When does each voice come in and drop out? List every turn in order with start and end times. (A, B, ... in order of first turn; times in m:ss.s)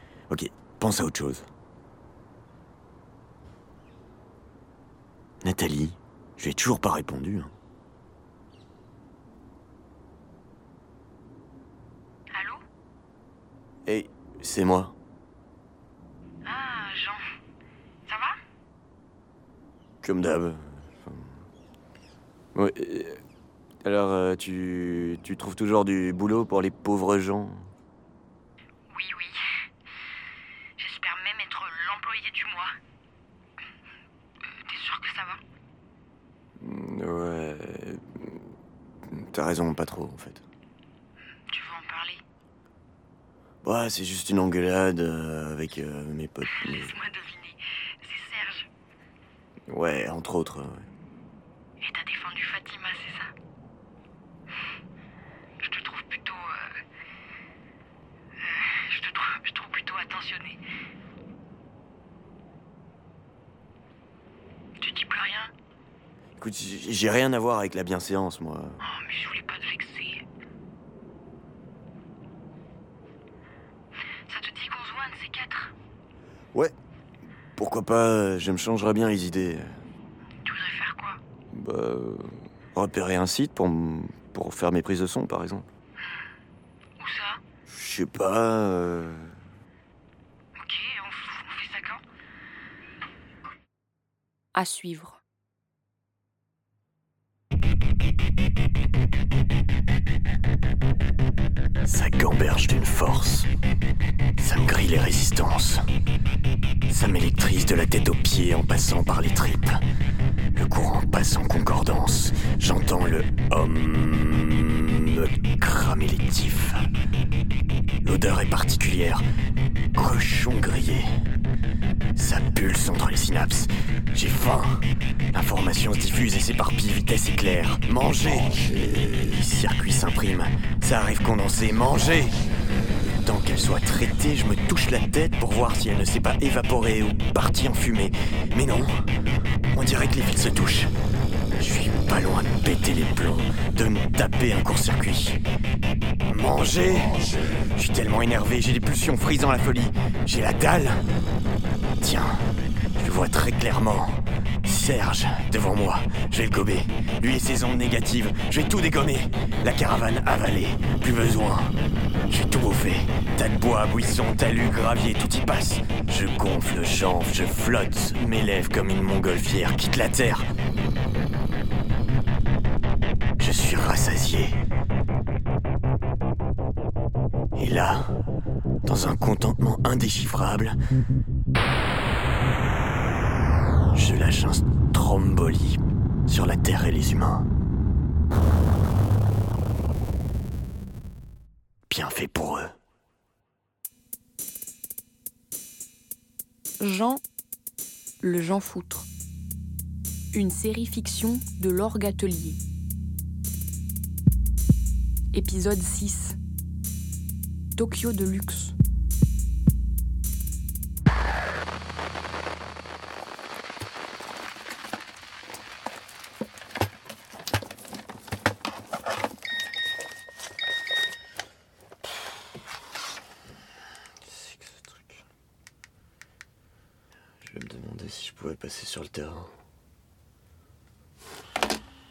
0:00.3-0:01.5 A
0:05.4-0:07.5 A
0:12.3-0:12.6 B
0:13.9-0:15.0 A
0:16.4-0:17.2 B
0:18.1-0:18.4 B
0:20.0-0:21.4 A
0:22.6-0:23.2 A
0:23.8-0:27.7 A
0:28.9-0:29.4 B
0:30.8-0:32.7 B
0:34.6-0:35.4 B
0:36.6-0:38.4 A
0:39.1-0:40.4 A
0:41.5-0:42.2 B
0:43.6-0:46.9 A
0:46.5-0:48.7 B
0:49.7-0:50.8 A
0:51.8-0:53.3 B
0:55.6-0:56.7 B
0:58.4-1:00.6 B
1:04.8-1:05.5 B
1:06.4-1:08.8 A
1:08.8-1:10.2 B
1:14.3-1:15.7 B
1:17.6-1:19.8 A
1:20.4-1:21.2 B
1:21.5-1:25.7 A
1:27.0-1:27.4 B
1:27.7-1:29.3 A
1:30.6-1:32.0 B
1:34.5-1:35.2 C
1:41.8-1:43.5 A
1:44.4-1:45.8 A
1:46.9-1:49.8 A
1:50.5-1:56.8 A
1:58.0-1:59.2 A
2:00.0-2:01.1 A
2:02.2-2:12.4 A
2:13.0-2:19.1 A
2:19.7-2:20.9 A
2:21.6-2:25.4 A
2:26.3-2:31.0 A
2:32.0-2:41.8 A
2:42.3-2:50.5 A
2:53.4-2:54.6 A
2:57.6-2:58.1 A
2:58.8-3:00.8 A
3:03.9-3:07.5 A
3:11.9-3:12.8 A
3:16.8-3:17.2 C
3:18.2-3:19.1 C
3:20.3-3:22.6 C
3:25.3-3:26.4 C
3:27.8-3:28.8 C
3:44.3-3:44.8 A
3:47.4-3:49.5 A